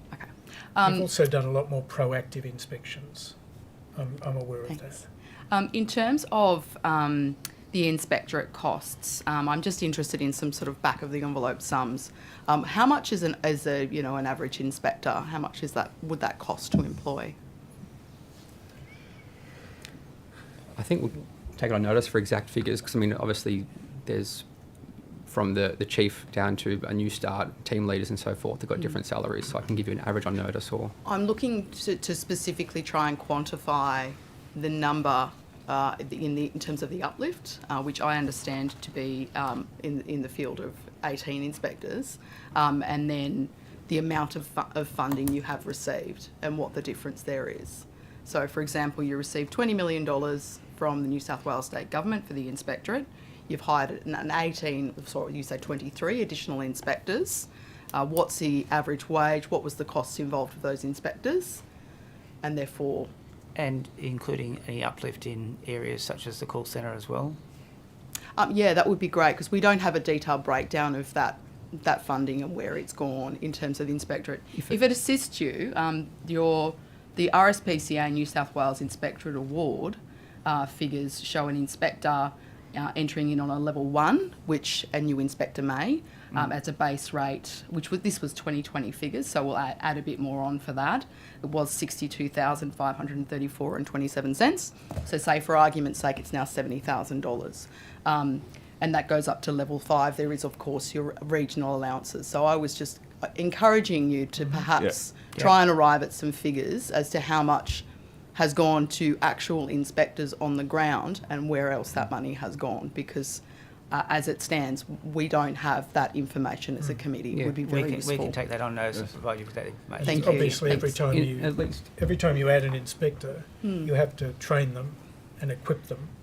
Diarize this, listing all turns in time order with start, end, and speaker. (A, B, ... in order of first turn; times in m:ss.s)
0:00.1-0:01.1 A
0:00.8-0:03.3 B
0:03.9-0:05.1 B
0:05.5-0:17.4 A
0:20.8-0:24.4 C
0:25.3-0:30.9 C
0:31.0-1:01.6 A
1:02.4-1:03.1 A
1:03.6-1:07.4 D
1:08.4-1:58.4 A
1:57.3-2:00.9 D
2:00.0-2:06.1 B
2:00.0-2:00.9 A
2:00.7-2:01.9 C
2:03.6-2:03.9 A